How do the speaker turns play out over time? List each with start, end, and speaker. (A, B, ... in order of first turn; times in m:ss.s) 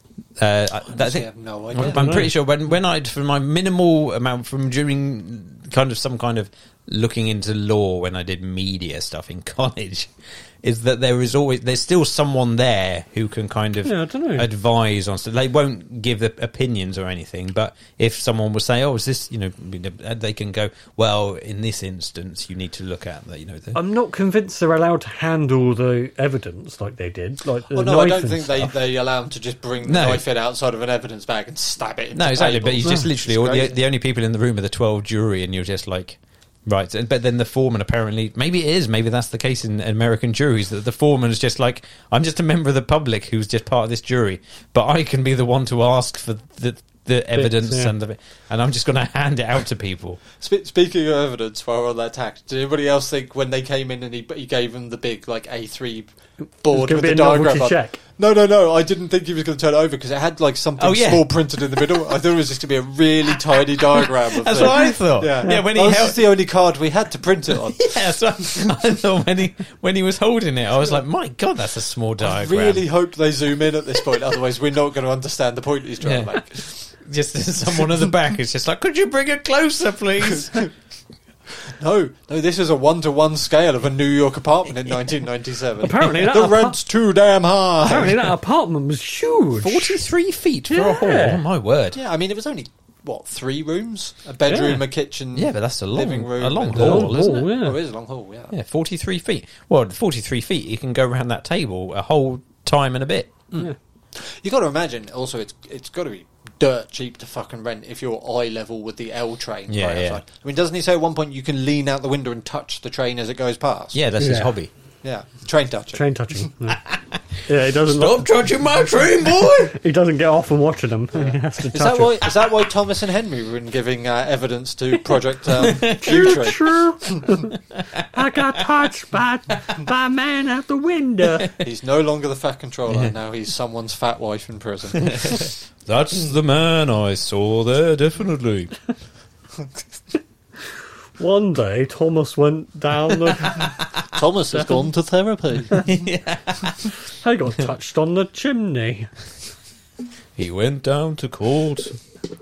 0:00.4-0:23.8 A
0:00.9-0:02.2 B
0:01.8-0:02.3 C
0:13.8-0:14.5 C
0:23.7-0:28.7 C
0:27.7-0:33.8 B
0:29.8-0:30.2 A
0:32.1-0:50.2 A
0:47.4-0:47.9 C
0:50.4-0:56.1 B
0:56.6-1:08.0 B
0:56.7-0:58.0 C
1:00.8-1:02.0 A
1:03.8-1:06.3 A
1:07.8-1:12.8 A
1:12.2-1:16.7 B
1:16.0-1:20.6 A
1:21.7-1:28.3 B
1:25.8-1:26.8 C
1:27.8-1:30.0 C
1:29.6-1:32.0 A
1:30.7-1:31.4 C
1:31.9-1:38.5 B
1:34.5-1:34.8 C
1:35.3-1:37.5 A
1:36.7-1:37.8 C
1:38.5-1:43.3 A
1:43.5-1:54.0 B
1:49.7-1:50.2 A
1:53.9-1:54.7 A
1:54.2-1:54.5 C
1:55.0-1:56.1 B
1:55.9-1:56.8 C
1:56.7-1:57.2 A
1:57.4-1:58.3 C
1:57.8-1:59.8 A
1:59.7-2:02.2 C
2:01.1-2:07.3 B
2:05.6-2:06.3 A
2:05.9-2:07.5 C
2:07.5-2:08.6 A
2:08.1-2:11.5 C
2:11.6-2:15.4 B
2:15.0-2:18.7 A
2:21.2-2:23.7 C
2:24.1-2:25.9 B
2:25.7-2:26.9 A
2:27.2-2:29.1 C
2:30.4-2:31.9 A